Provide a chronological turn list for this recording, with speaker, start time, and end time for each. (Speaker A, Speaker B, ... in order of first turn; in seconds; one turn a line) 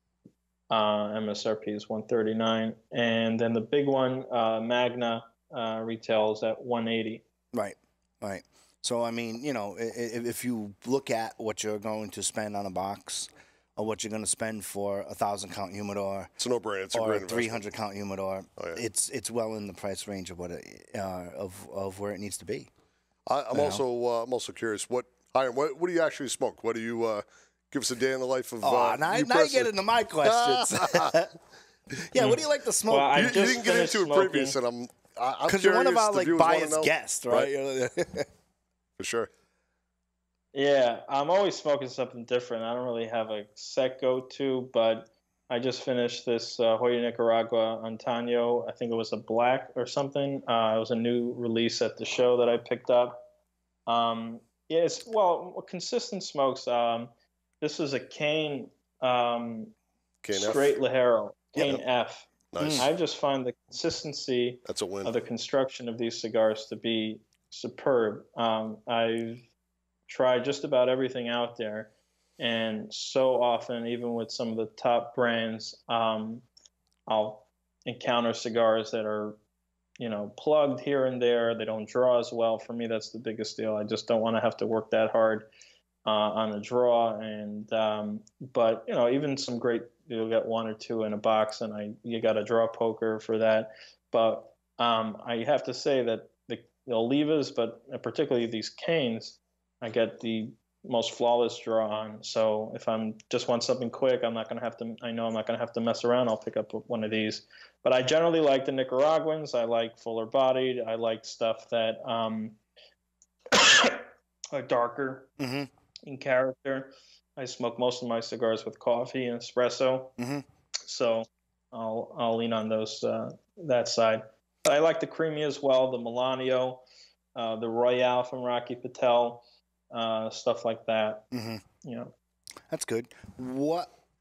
Speaker A: 0.7-7.2
Speaker B: 7.5-16.3
Speaker C: 16.4-17.6
Speaker B: 16.9-22.7
Speaker C: 23.3-31.1
Speaker B: 23.5-23.8
Speaker B: 28.6-31.3
Speaker B: 31.9-33.4
Speaker A: 32.1-34.6
Speaker C: 33.1-37.5
Speaker B: 35.5-38.3
Speaker C: 39.0-39.3
Speaker A: 40.5-53.3
Speaker A: 53.9-59.7
Speaker C: 60.2-60.7
Speaker A: 60.3-69.5
Speaker C: 62.5-62.9
Speaker B: 62.6-62.9
Speaker C: 64.7-65.1
Speaker A: 70.1-76.4
Speaker A: 77.1-79.4
Speaker A: 80.0-85.5
Speaker A: 86.0-112.6
Speaker A: 113.5-115.3
Speaker B: 115.4-115.7
Speaker A: 116.0-120.2
Speaker B: 120.2-120.4
Speaker A: 120.8-126.8
Speaker A: 127.3-131.3
Speaker B: 131.3-131.6
Speaker A: 131.8-132.1
Speaker B: 132.7-133.9